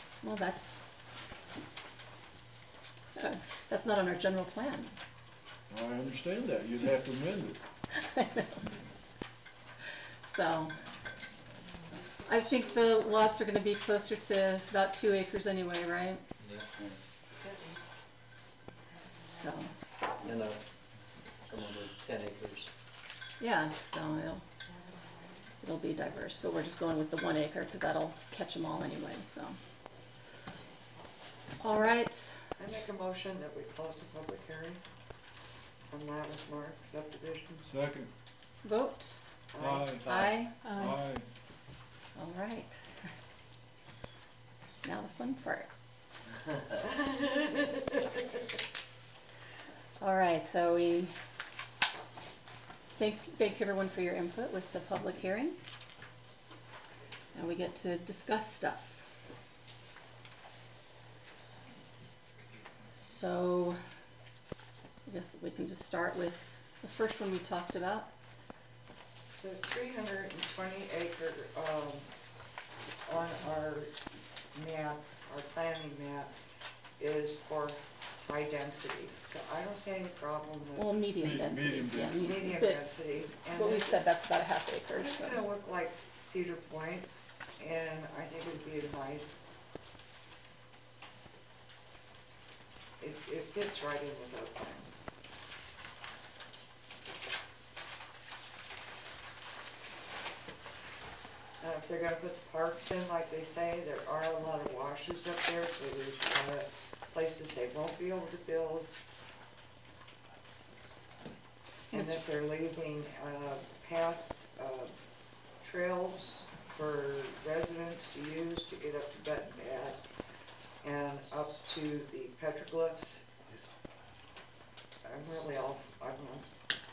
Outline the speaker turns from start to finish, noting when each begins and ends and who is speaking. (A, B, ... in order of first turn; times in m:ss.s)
0:00.2-0:00.8 A
0:03.1-0:05.0 A
0:05.7-0:07.6 B
0:08.0-0:08.5 A
0:10.2-0:10.8 A
0:12.2-0:16.2 A
0:16.4-0:17.0 C
0:19.3-0:19.7 A
0:20.2-0:20.6 C
0:21.4-0:22.7 C
0:23.4-0:24.4 A
0:25.6-0:29.6 A
0:31.6-0:32.3 A
0:32.6-0:34.8 D
0:35.9-0:37.7 D
0:37.6-0:38.1 B
0:38.6-0:39.2 A
0:39.5-0:40.0 D
0:39.6-0:41.3 B
0:40.0-0:40.7 A
0:42.1-0:42.8 A
0:44.8-0:45.7 A
0:46.9-0:47.5 D
0:50.0-0:51.1 A
0:53.0-0:55.6 A
0:57.3-0:59.0 A
1:02.9-1:03.8 A
1:05.0-1:08.1 A
1:09.4-1:12.1 D
1:13.0-1:13.9 D
1:14.5-1:16.3 D
1:17.0-1:21.0 D
1:20.8-1:22.8 A
1:21.2-1:22.4 B
1:22.2-1:24.0 D
1:23.4-1:25.4 A
1:24.9-1:29.5 D
1:33.0-1:34.9 D
1:41.6-1:48.9 D
1:51.9-1:54.9 D
1:51.9-1:52.2 A
1:55.6-2:00.1 D
2:00.8-2:03.3 D
2:05.0-2:06.5 D